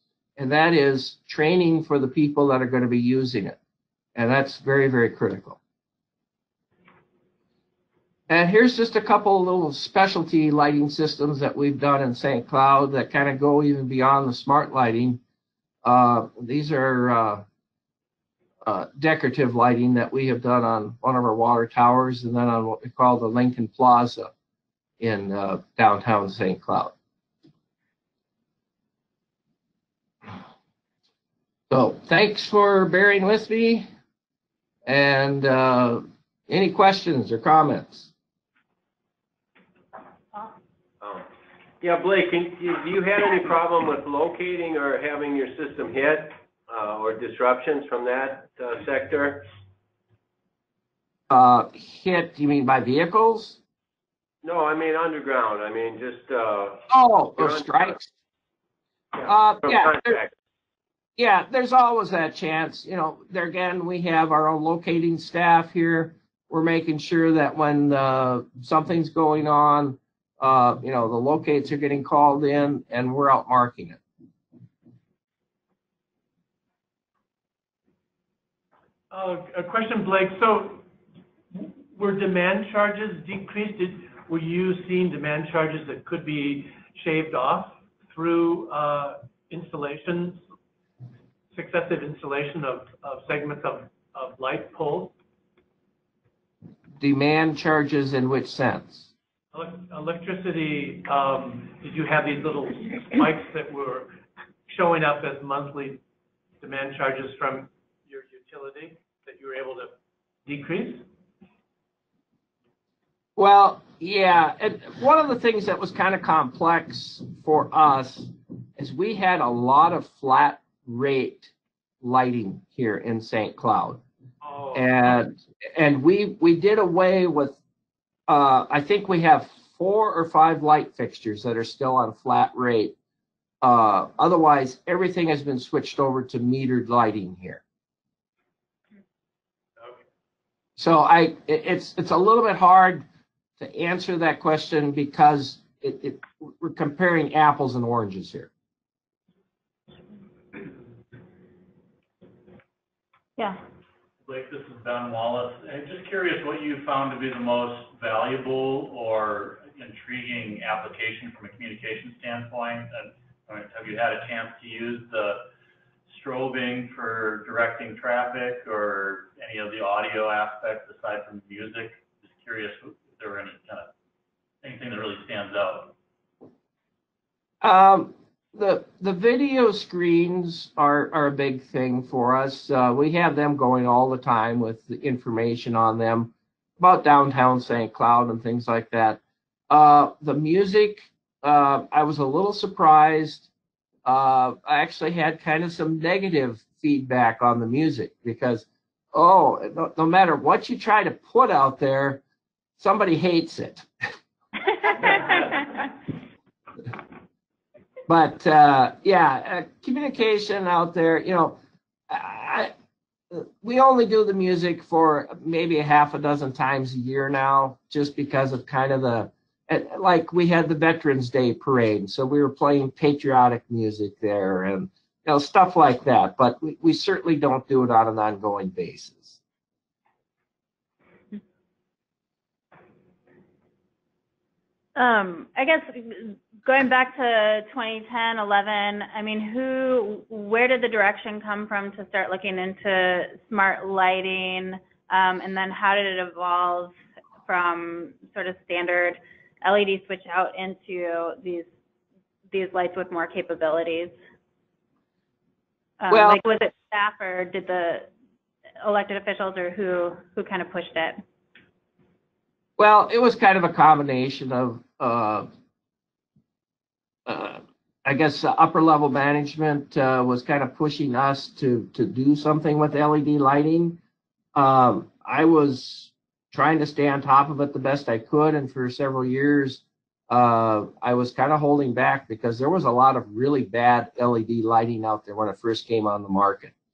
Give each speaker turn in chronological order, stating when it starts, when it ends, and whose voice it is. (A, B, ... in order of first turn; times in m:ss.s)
0:00.4-0:03.6 A
0:04.2-0:05.6 A
0:08.3-0:15.2 A
0:15.8-0:17.4 A
0:18.6-0:24.3 A
0:25.0-0:26.9 A
0:31.7-0:33.9 A
0:34.8-0:38.1 A
0:41.0-0:41.3 B
0:41.8-0:49.5 B
0:51.3-0:53.6 A
0:54.4-0:58.0 B
0:56.9-0:58.1 A
0:59.1-1:00.3 B
0:59.2-1:00.2 A
1:01.2-1:14.0 A
1:19.1-1:20.9 C
1:21.5-1:30.5 C
1:31.5-1:35.2 C
1:37.0-1:39.1 A
1:39.5-1:46.0 C
1:46.6-1:51.1 C
1:53.4-2:04.0 A
2:04.4-2:04.8 C
2:04.7-2:07.6 A
2:08.3-2:13.0 A
2:13.6-2:17.6 A
2:19.8-2:20.1 C
2:20.8-2:23.0 A
2:23.6-2:28.5 A
2:34.2-2:45.5 D
2:46.1-2:53.9 D
2:54.6-2:56.0 D
2:57.6-3:13.5 A
3:14.0-3:22.2 A
3:22.8-3:23.9 A
3:25.0-3:25.4 A
3:28.1-3:31.6 A
3:32.1-3:32.7 A
3:33.3-3:49.4 A
3:55.0-4:11.7 E
4:12.5-4:14.2 E
4:16.0-4:18.1 E
4:16.1-4:16.4 A
4:18.8-4:21.2 E
4:22.8-4:25.5 A
4:27.3-4:34.0 A
4:34.5-4:46.7 A